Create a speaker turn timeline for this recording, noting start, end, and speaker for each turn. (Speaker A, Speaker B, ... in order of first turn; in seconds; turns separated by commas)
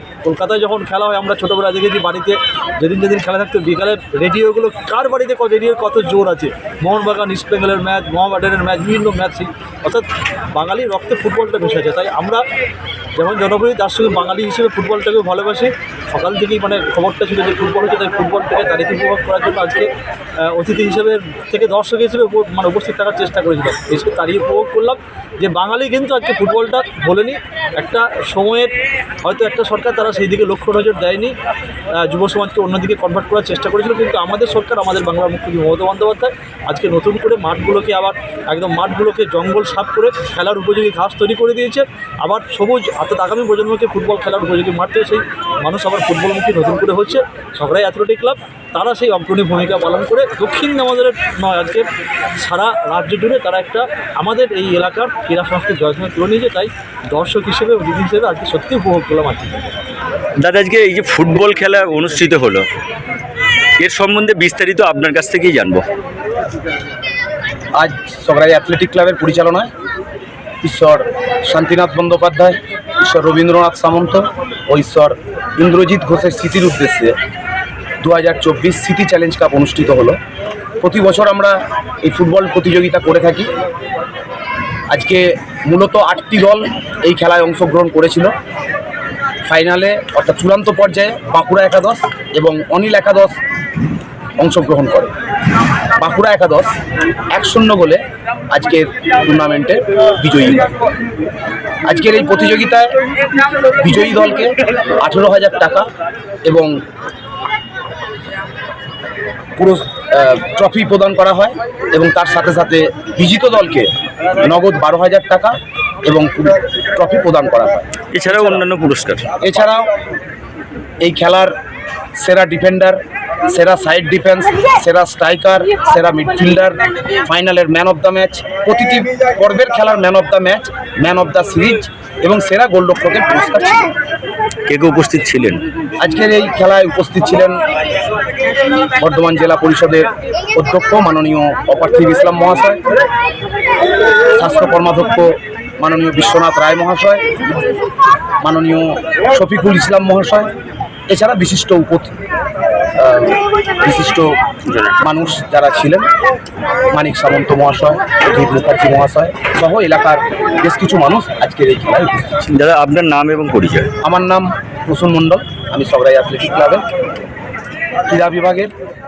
Speaker A: 0.2-12.4, Speaker A: 13.2-19.9, Speaker A: 20.5-28.7, Speaker A: 29.2-31.3, Speaker A: 32.0-51.9, Speaker A: 52.4-59.5, Speaker B: 60.4-62.6, Speaker B: 63.8-65.8, Speaker C: 67.8-69.7, Speaker C: 70.6-77.2, Speaker C: 78.0-80.2, Speaker C: 80.8-83.5, Speaker C: 84.9-88.3, Speaker C: 89.5-93.4, Speaker C: 94.4-95.1, Speaker C: 96.0-96.7, Speaker C: 97.3-98.0, Speaker C: 98.5-100.7, Speaker C: 101.9-102.9, Speaker C: 103.8-105.9, Speaker C: 106.4-106.7, Speaker C: 109.6-117.9, Speaker B: 118.1-119.3, Speaker C: 119.4-119.9, Speaker C: 121.0-121.5, Speaker C: 122.2-123.0, Speaker C: 123.5-133.9, Speaker B: 134.7-135.6, Speaker C: 136.0-137.6, Speaker C: 139.0-142.8, Speaker C: 144.3-147.2, Speaker C: 148.4-150.5, Speaker C: 151.1-152.1, Speaker C: 153.0-154.3, Speaker C: 155.0-156.1, Speaker C: 156.9-162.4, Speaker B: 162.5-163.9, Speaker C: 164.0-166.9, Speaker C: 168.1-168.7